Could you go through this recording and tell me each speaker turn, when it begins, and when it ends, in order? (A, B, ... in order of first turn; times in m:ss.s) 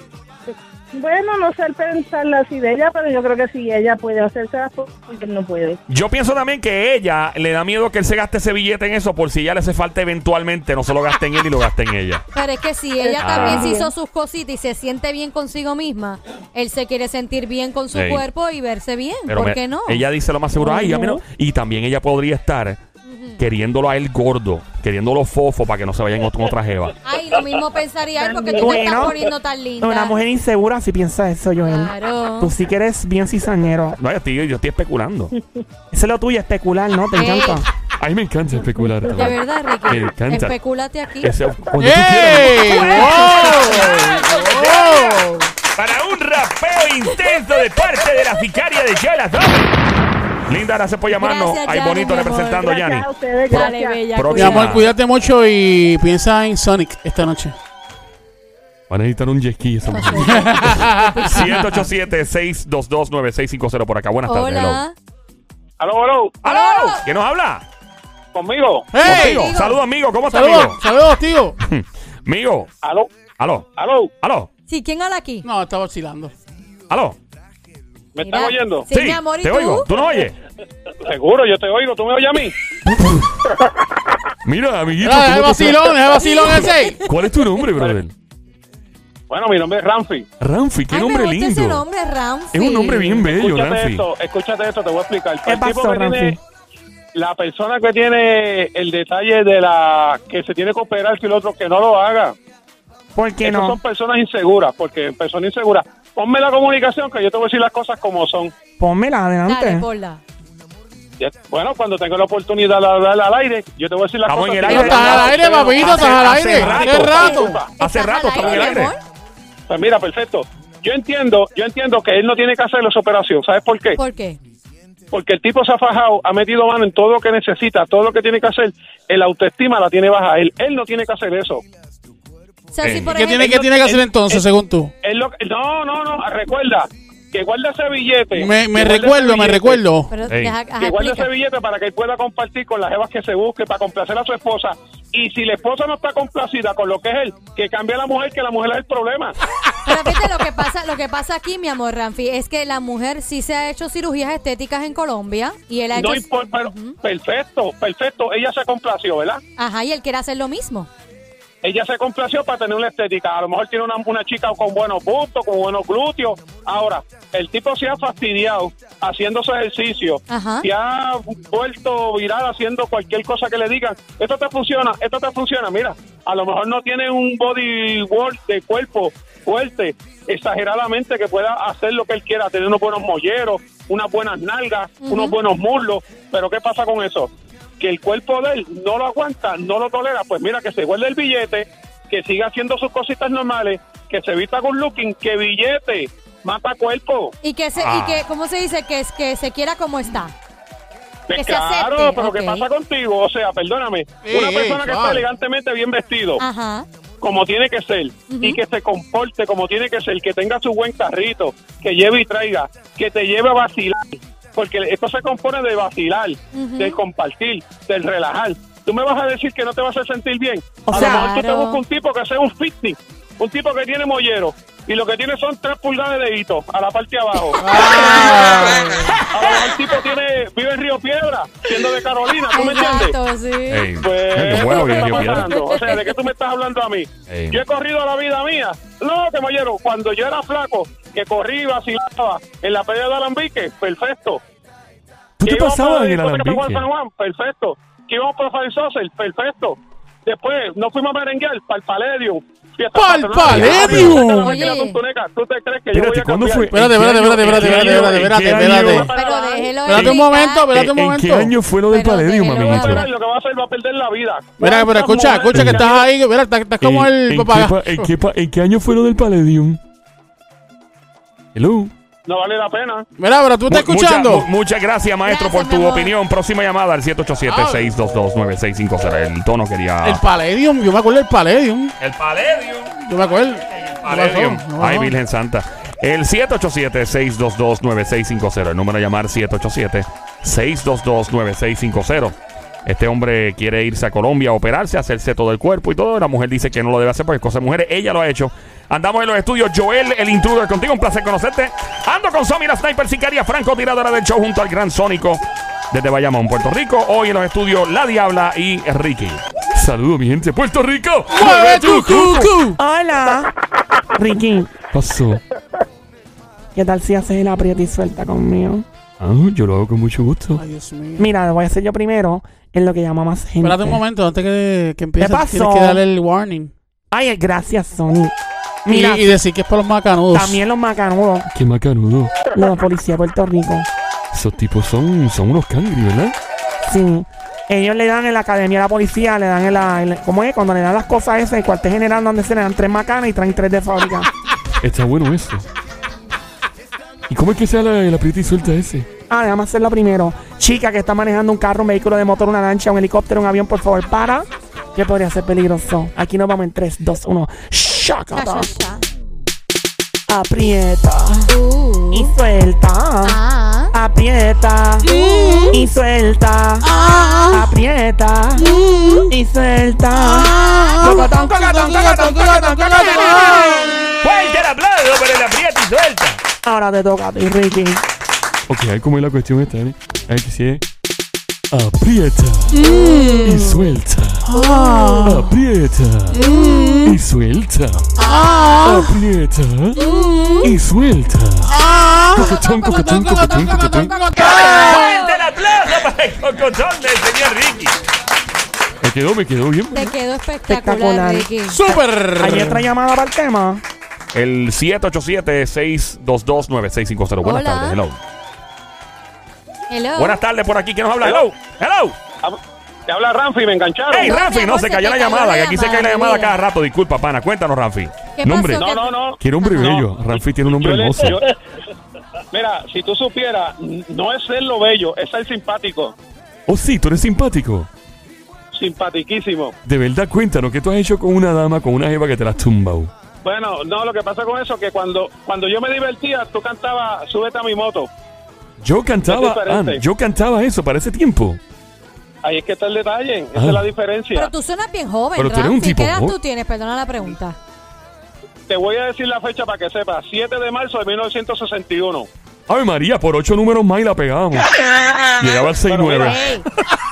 0:00.5-0:05.8 A
0:05.9-0:12.3 B
0:12.3-0:20.0 C
0:13.0-0:13.9 A
0:13.2-0:13.7 B
0:17.9-0:18.2 B
0:19.3-0:22.8 B
0:20.6-0:21.2 D
0:23.0-0:23.4 C
0:23.4-0:27.0 B
0:27.0-0:30.2 C
0:28.2-0:29.2 A
0:28.5-0:29.2 D
0:29.8-0:34.0 D
0:31.6-0:32.6 C
0:34.0-0:35.3 B
0:35.9-0:37.7 D
0:37.1-0:37.6 C
0:38.0-0:40.6 E
0:39.0-0:41.4 C
0:41.2-0:43.1 E
0:41.8-0:45.5 F
0:42.7-0:44.2 C
0:44.4-0:45.0 B
0:45.8-0:49.8 B
0:50.5-0:54.9 B
0:51.1-0:52.6 C
0:52.6-0:54.2 A
0:53.5-0:54.8 C
0:54.3-0:57.6 F
0:58.9-1:00.7 E
0:59.9-1:01.5 C
1:00.3-1:01.3 F
1:01.2-1:04.8 B
1:04.2-1:04.9 C
1:05.8-1:06.4 G
1:06.4-1:07.6 B
1:06.4-1:07.0 C
1:08.3-1:08.9 G
1:08.9-1:09.5 F
1:09.0-1:10.8 B
1:09.0-1:09.8 C
1:10.3-1:11.6 F
1:11.6-1:12.7 B
1:12.8-1:13.1 G
1:13.4-1:13.7 B
1:13.7-1:14.1 G
1:14.2-1:14.5 B
1:14.7-1:15.5 C
1:15.4-1:16.3 F
1:16.9-1:17.2 B
1:18.2-1:18.9 G
1:18.2-1:20.0 C
1:18.9-1:20.4 B
1:21.0-1:22.6 G
1:22.9-1:23.2 E
1:24.4-1:26.0 E
1:25.0-1:27.0 F
1:26.1-1:27.1 C
1:26.6-1:28.1 E
1:29.3-1:30.3 G
1:30.4-1:31.9 E
1:30.9-1:33.2 C
1:32.5-1:34.0 E
1:33.2-1:36.4 G
1:35.5-1:36.4 D
1:37.2-1:42.4 G
1:43.2-1:43.8 D
1:43.4-1:48.5 G
1:48.8-1:49.8 D
1:49.5-1:50.2 C
1:51.2-1:57.7 G
1:54.3-1:58.9 B
1:54.7-1:57.6 F
1:55.8-1:56.8 D
1:57.2-1:59.0 C
1:58.4-1:58.8 G
1:59.7-2:04.0 G
2:04.0-2:04.4 C
2:05.1-2:11.6 G
2:12.7-2:13.6 C
2:12.8-2:13.1 B
2:13.1-2:14.9 F
2:13.4-2:14.4 G
2:15.0-2:19.8 G
2:18.3-2:20.1 F
2:20.1-2:21.3 C
2:20.8-2:29.4 G
2:29.8-2:37.0 C
2:35.9-2:39.4 G
2:39.6-2:40.9 C
2:41.6-3:17.4 G
2:50.3-2:50.7 C
3:05.0-3:05.4 C
3:17.4-3:20.3 C
3:17.8-3:18.2 B
3:21.3-3:26.4 G
3:21.3-3:22.6 C
3:24.2-3:25.2 F
3:26.4-3:26.9 C
3:27.2-3:48.7 G
3:28.3-3:28.6 C
3:36.5-3:37.0 C
3:40.9-3:41.3 D
3:40.9-3:41.8 C
3:47.6-3:49.2 F
3:49.3-3:53.2 G
3:52.5-3:54.0 C
3:53.7-3:55.5 B
3:54.0-4:04.4 G
3:54.5-3:56.2 C
3:57.3-3:57.6 B
4:05.4-4:06.9 E
4:05.4-4:16.7 G
4:12.9-4:14.7 F
4:13.4-4:14.2 E
4:13.8-4:15.0 C
4:15.9-4:19.1 E
4:16.7-4:19.1 F
4:17.4-4:20.0 G
4:19.0-4:20.7 C
4:19.9-4:21.5 F
4:19.9-4:20.2 E
4:20.8-4:23.1 E
4:21.9-4:23.1 C
4:22.6-4:26.1 G
4:24.6-4:28.1 F
4:25.5-4:25.9 E
4:26.8-4:29.8 E
4:31.6-4:31.9 E
4:32.3-4:33.0 G
4:33.2-4:34.5 F
4:33.7-4:40.2 B
4:35.2-4:36.2 C
4:37.4-4:38.0 F
4:40.0-4:41.9 F
4:42.0-4:42.9 B
4:43.0-4:45.2 F
4:43.8-4:52.4 B
4:52.9-5:09.4 B
5:09.7-5:12.5 E
5:11.3-5:12.8 F
5:12.7-5:13.5 D
5:14.2-5:14.8 D
5:14.9-5:15.4 E
5:16.8-5:18.8 D
5:19.2-5:20.6 E
5:20.5-5:21.3 F
5:21.2-5:24.0 D
5:23.6-5:26.7 F
5:25.2-5:26.0 D
5:27.1-5:28.3 D
5:28.9-5:29.3 D
5:28.9-5:30.6 F
5:30.3-5:31.5 D
5:31.5-5:32.4 E
5:32.5-5:33.9 D
5:34.3-5:36.4 E
5:36.9-5:44.3 D
5:44.8-5:45.6 E
5:47.3-5:49.1 E
5:49.3-5:58.8 D
5:58.4-5:59.0 C
6:00.3-6:01.5 D
6:01.4-6:02.3 C
6:02.1-6:03.4 D
6:03.2-6:03.9 C
6:03.9-6:05.1 D
6:05.0-6:05.7 F
6:05.1-6:05.8 C
6:05.7-6:06.9 D
6:06.8-6:07.6 F
6:06.9-6:07.4 C
6:07.5-6:08.7 D
6:08.6-6:09.3 F
6:09.3-6:13.8 D
6:10.1-6:14.0 F
6:13.1-6:13.4 C
6:14.2-6:16.4 B
6:16.6-6:18.0 D
6:18.7-6:20.8 E
6:21.7-6:24.6 E
6:22.7-6:23.9 F
6:24.5-6:25.6 F
6:24.5-6:25.1 C
6:25.2-6:26.4 E
6:26.3-6:27.2 F
6:26.4-6:27.1 C
6:27.0-6:28.2 E
6:28.2-6:29.2 F
6:28.8-6:30.0 E
6:30.0-6:30.7 C
6:30.0-6:30.6 F
6:30.6-6:31.8 E
6:31.7-6:35.2 F
6:32.4-6:34.2 E
6:32.6-6:33.0 C
6:34.0-6:35.4 C
6:34.6-6:37.9 B
6:39.0-6:40.1 E
6:39.9-6:41.9 C
6:40.7-6:41.5 D
6:41.6-6:42.9 F
6:42.4-6:43.8 D
6:44.3-6:48.2 B
6:47.4-6:48.0 C
6:49.9-6:50.4 C
6:50.2-6:52.2 B
6:52.4-6:54.4 G
6:54.1-6:58.2 B
6:54.2-6:56.6 C
6:58.4-6:59.8 C
6:58.4-7:01.4 E
6:58.8-7:01.5 G
7:02.5-7:06.2 G
7:06.7-7:07.9 E
7:08.7-7:09.8 G
7:09.8-7:13.1 E
7:13.4-7:18.1 G
7:18.8-7:21.6 E
7:19.3-7:20.0 G
7:22.4-7:24.5 G
7:23.5-7:23.9 E
7:24.3-7:27.6 C
7:25.4-7:26.4 E
7:28.7-7:32.3 G
7:32.7-7:34.7 E
7:35.4-7:36.5 E
7:35.9-7:36.4 G
7:36.2-7:36.6 C